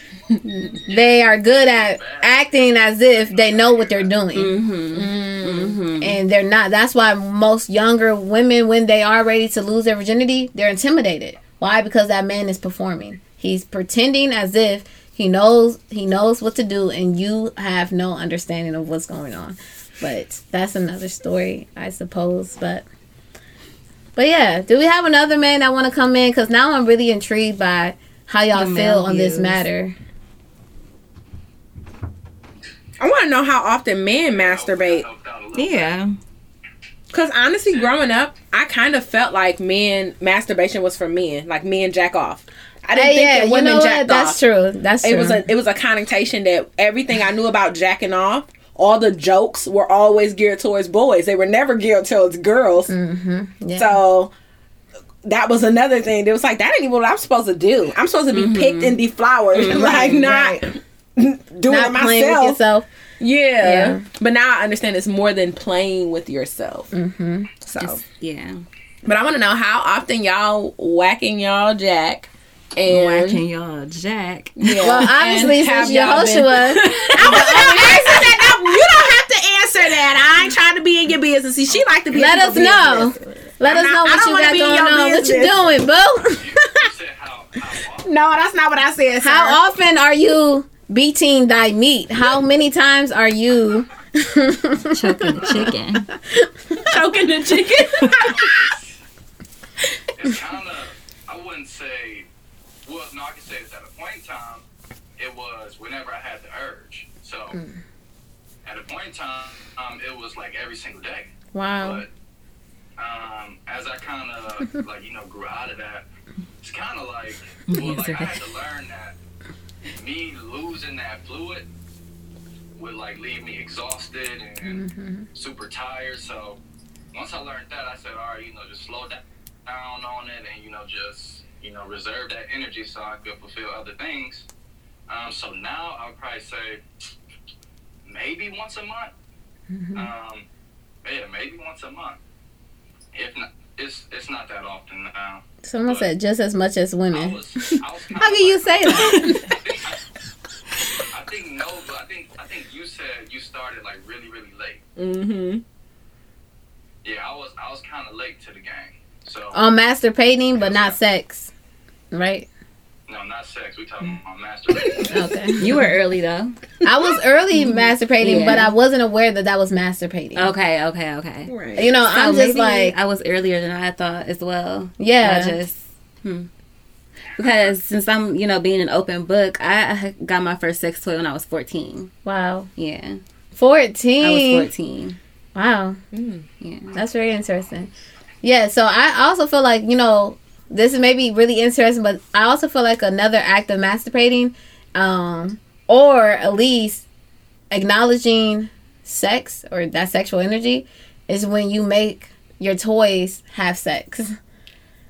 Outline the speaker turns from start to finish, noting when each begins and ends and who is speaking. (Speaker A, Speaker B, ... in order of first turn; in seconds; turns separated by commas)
Speaker A: 0.4-4.5, Speaker B: 0.9-4.2, Speaker C: 4.3-6.2, Speaker D: 4.9-5.8, Speaker A: 6.0-22.9, Speaker A: 24.2-29.9, Speaker C: 28.5-29.6, Speaker D: 33.0-35.1, Speaker B: 34.3-36.0, Speaker C: 35.5-36.2, Speaker D: 37.1-44.4, Speaker B: 37.7-38.2, Speaker A: 42.9-45.4, Speaker D: 45.0-52.9, Speaker A: 52.9-54.0, Speaker D: 53.8-54.3, Speaker D: 55.2-62.6, Speaker C: 58.3-59.0, Speaker C: 59.5-60.5, Speaker A: 61.7-62.9, Speaker D: 63.2-66.9, Speaker A: 63.6-64.0, Speaker A: 66.9-67.5, Speaker D: 67.7-68.0, Speaker C: 67.8-68.6, Speaker D: 69.0-73.4, Speaker C: 72.9-75.0, Speaker D: 74.6-85.7, Speaker A: 74.8-78.8, Speaker C: 76.8-78.2, Speaker A: 82.1-86.5, Speaker B: 86.4-88.2, Speaker D: 88.0-89.6, Speaker A: 89.2-96.9, Speaker C: 94.9-96.0, Speaker D: 96.8-98.7, Speaker B: 98.0-99.0, Speaker B: 100.2-102.3, Speaker B: 102.8-104.6, Speaker B: 105.2-107.6, Speaker B: 108.7-112.1, Speaker A: 111.5-112.0, Speaker B: 113.0-116.1, Speaker B: 116.6-119.2, Speaker C: 117.7-118.4, Speaker B: 120.0-121.7, Speaker B: 122.8-124.8, Speaker A: 124.6-125.3, Speaker B: 125.3-126.6, Speaker B: 127.1-134.5, Speaker B: 135.1-136.8, Speaker B: 138.1-139.1, Speaker A: 139.7-140.1, Speaker B: 139.9-140.5, Speaker B: 141.0-142.2, Speaker B: 143.1-146.1, Speaker A: 145.6-149.5, Speaker B: 147.1-150.0, Speaker B: 151.1-154.8, Speaker D: 155.0-155.6, Speaker B: 157.0-159.6, Speaker A: 159.5-161.5, Speaker B: 160.6-161.0, Speaker A: 162.1-162.5, Speaker B: 163.1-165.5, Speaker A: 165.1-165.6, Speaker C: 165.6-166.6, Speaker D: 165.6-165.9, Speaker A: 166.8-170.5, Speaker C: 167.6-168.7, Speaker C: 170.4-176.5, Speaker D: 171.5-171.9, Speaker A: 171.8-172.9, Speaker A: 175.0-175.6, Speaker C: 177.4-182.1, Speaker A: 182.2-182.7, Speaker C: 182.8-183.2, Speaker A: 183.6-184.7, Speaker C: 184.2-185.2, Speaker A: 185.6-186.0, Speaker D: 186.1-186.5, Speaker C: 186.6-186.9, Speaker A: 186.9-187.9, Speaker A: 188.4-197.1, Speaker A: 197.7-204.4